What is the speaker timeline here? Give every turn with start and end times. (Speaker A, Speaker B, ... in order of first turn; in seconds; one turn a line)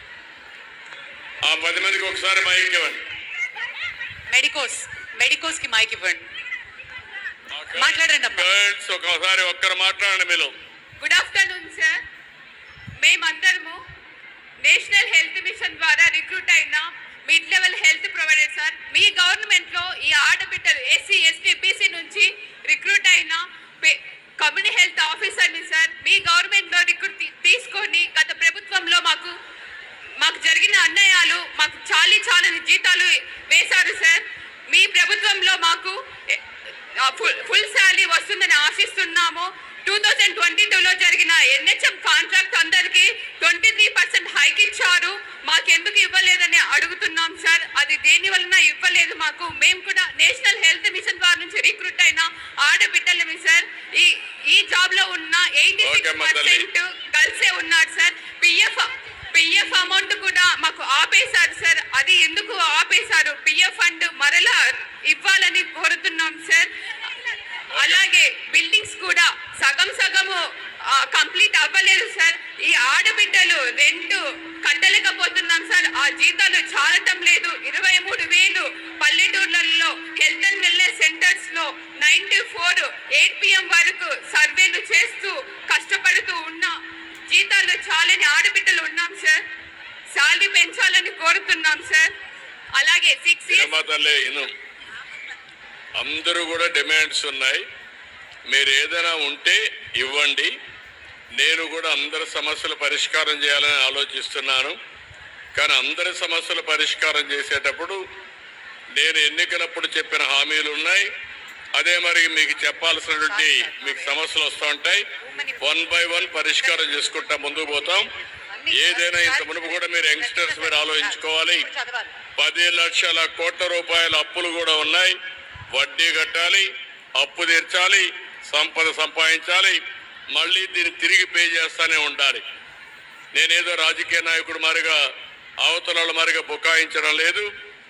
Speaker A: 1.4-3.0
Speaker B: 4.3-6.2
Speaker A: 7.5-10.5
Speaker B: 7.8-8.5
Speaker C: 11.0-12.0
Speaker C: 13.0-13.8
Speaker C: 14.6-29.4
Speaker C: 30.2-36.4
Speaker C: 37.0-66.7
Speaker A: 55.8-56.7
Speaker C: 67.2-70.4
Speaker A: 67.7-68.0
Speaker C: 70.9-86.7
Speaker C: 87.3-89.4
Speaker C: 90.1-92.1
Speaker C: 92.8-93.7
Speaker A: 93.5-94.5
Speaker A: 96.0-97.7
Speaker A: 98.5-100.5
Speaker A: 101.4-104.8
Speaker A: 105.5-108.0
Speaker A: 109.0-111.1
Speaker A: 111.8-115.0
Speaker B: 113.2-114.2
Speaker B: 115.2-115.8
Speaker A: 115.6-118.1
Speaker B: 116.6-116.9
Speaker B: 118.5-122.2
Speaker A: 118.7-121.7
Speaker A: 122.4-125.2
Speaker A: 125.7-132.4
Speaker A: 133.3-135.1
Speaker A: 135.6-137.5